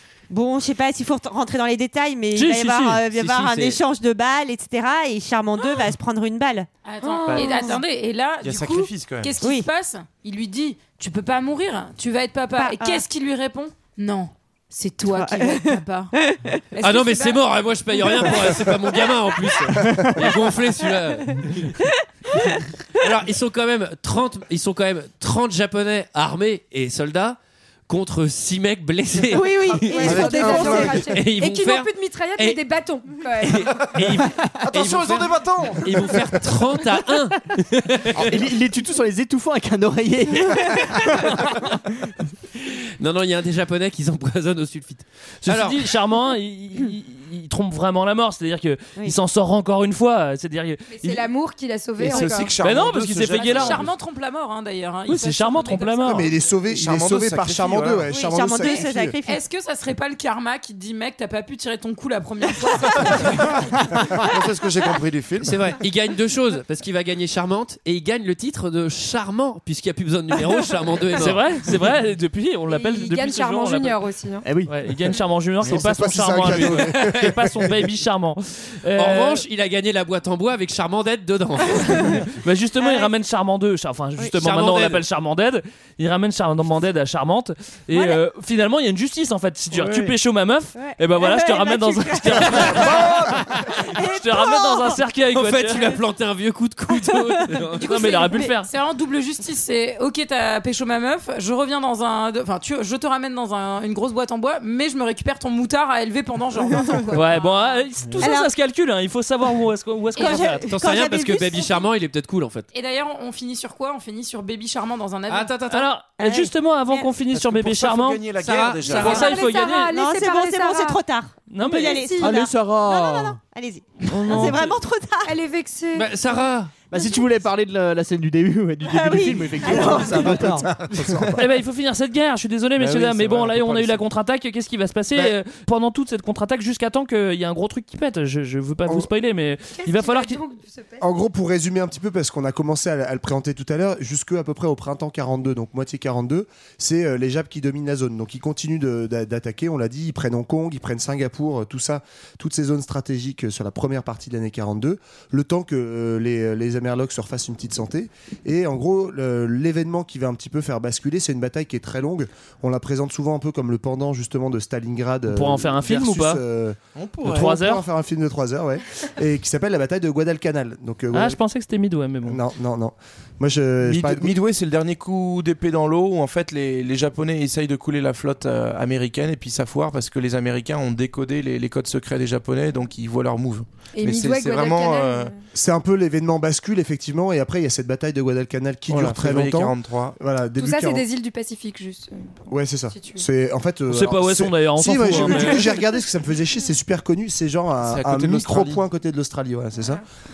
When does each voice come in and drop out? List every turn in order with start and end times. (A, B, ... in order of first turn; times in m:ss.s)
0:00.3-0:06.7 A
0:02.4-0:03.0 B
0:03.1-0:03.8 C
0:06.8-0:16.1 D
0:07.0-0:07.8 E
0:07.3-0:07.8 A
0:08.4-0:09.3 F
0:09.4-0:09.7 A
0:12.6-0:13.0 A
0:15.1-0:16.6 A
0:16.7-0:17.4 D
0:16.8-0:21.8 C
0:19.9-0:20.3 G
0:23.0-0:32.6 C
0:29.3-0:31.0 A
0:29.8-0:33.7 E
0:30.0-0:30.9 F
0:33.4-0:38.4 C
0:34.6-0:36.2 F
0:38.2-0:42.1 G
0:40.7-0:41.3 C
0:42.6-0:45.8 C
0:45.4-0:51.2 B
0:50.9-0:52.6 E
0:52.0-0:53.9 F
0:52.1-0:56.6 D
0:52.6-0:53.9 B
0:55.1-0:56.3 B
0:56.1-0:59.2 H
0:56.7-0:58.1 F
0:58.1-0:59.4 A
0:58.5-1:04.2 D
1:04.1-1:05.6 F
1:05.4-1:11.5 C
1:11.2-1:14.0 B
1:12.7-1:14.5 E
1:14.4-1:14.8 G
1:14.7-1:19.4 B
1:15.6-1:17.8 H
1:16.8-1:17.3 C
1:18.9-1:22.2 C
1:21.9-1:36.0 B
1:22.8-1:23.1 A
1:24.4-1:25.0 C
1:27.9-1:28.2 A
1:30.8-1:35.0 A
1:35.3-1:37.9 C
1:37.0-1:37.4 A
1:37.8-1:38.7 B
1:37.8-1:47.8 D
1:47.1-1:50.7 B
1:48.2-1:48.5 A
1:50.2-1:51.8 A
1:50.2-1:50.5 D
1:50.7-1:52.7 C
1:52.7-1:55.6 D
1:55.3-1:55.9 C
1:55.7-1:58.2 B
1:56.2-1:57.1 A
1:57.3-1:59.4 F
1:58.4-1:59.3 C
1:58.9-1:59.9 B
1:59.1-2:01.0 E
1:59.2-2:05.4 A
2:01.5-2:02.1 B
2:01.7-2:02.3 E
2:02.2-2:03.4 G
2:04.1-2:04.7 B
2:05.2-2:06.4 E
2:05.9-2:06.8 C
2:06.9-2:11.2 G
2:08.8-2:10.7 A
2:10.3-2:11.4 H
2:11.4-2:20.4 B
2:12.8-2:14.0 F
2:19.8-2:21.0 E
2:21.0-2:51.4 H
2:45.3-2:46.4 B
2:47.0-2:47.5 F
2:47.2-2:47.8 B
2:51.1-2:52.4 B
2:52.2-2:54.4 H
2:53.8-3:05.3 F
3:03.9-3:05.4 E
3:05.5-3:11.1 H
3:08.9-3:10.2 F
3:10.6-3:13.2 E
3:12.5-3:20.0 H
3:13.9-3:15.7 B
3:17.8-3:18.8 F